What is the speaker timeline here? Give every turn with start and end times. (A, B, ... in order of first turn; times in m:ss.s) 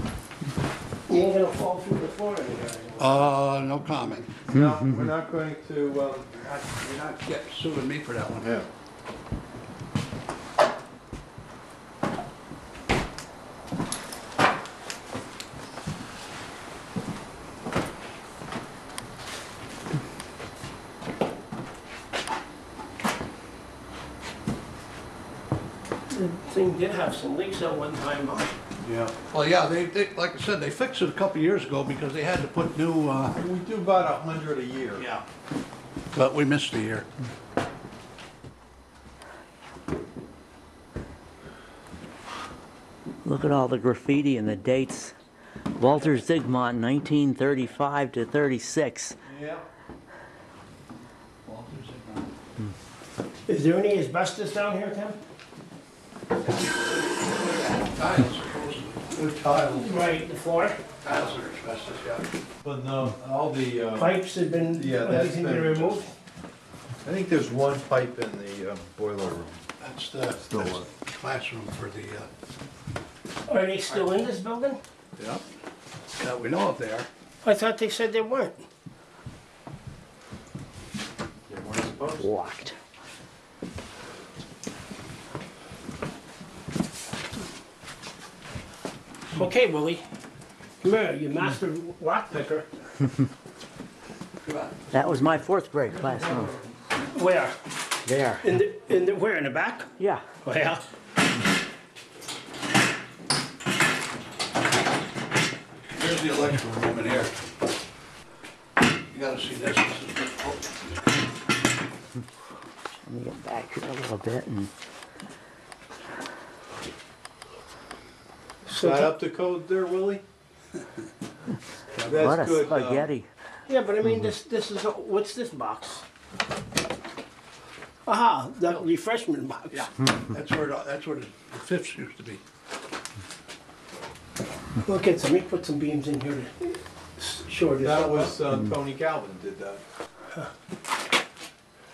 0:01.1-0:03.3 A
0:03.0-0:04.4 B
0:04.5-0:06.4 C
0:06.5-0:08.6 B
0:08.4-0:08.7 C
0:26.1-0:28.6 A
0:29.3-0:33.4 B
0:33.4-0:35.1 C
0:35.0-0:35.2 B
0:36.1-0:37.1 B
0:43.2-0:45.1 D
0:45.8-0:49.2 D
0:49.3-0:49.6 C
0:51.4-0:52.3 B
0:53.5-0:55.2 A
0:56.6-0:59.2 B
0:59.2-0:59.9 C
0:59.5-1:01.0 A
1:01.0-1:02.2 B
1:02.6-1:06.0 C
1:03.9-1:06.1 A
1:07.0-1:09.6 C
1:09.8-1:12.3 B
1:10.5-1:10.9 C
1:13.5-1:14.8 A
1:16.2-1:17.1 B
1:17.4-1:18.6 A
1:22.2-1:22.7 D
1:29.3-1:30.0 A
1:30.8-1:32.7 A
1:34.4-1:35.3 B
1:34.9-1:36.5 D
1:36.0-1:36.5 B
1:37.1-1:37.6 A
1:38.0-1:38.4 D
1:38.4-1:40.8 A
1:40.0-1:40.4 D
1:45.9-1:47.4 B
1:49.1-1:50.7 B
1:53.0-1:54.7 D
1:58.6-1:59.2 A
1:58.7-2:00.2 C
2:02.0-2:02.3 B
2:02.0-2:03.1 C
2:02.1-2:03.2 D
2:03.7-2:06.0 A
2:08.0-2:09.9 A
2:09.7-2:12.4 B
2:14.8-2:18.4 A
2:17.7-2:19.8 C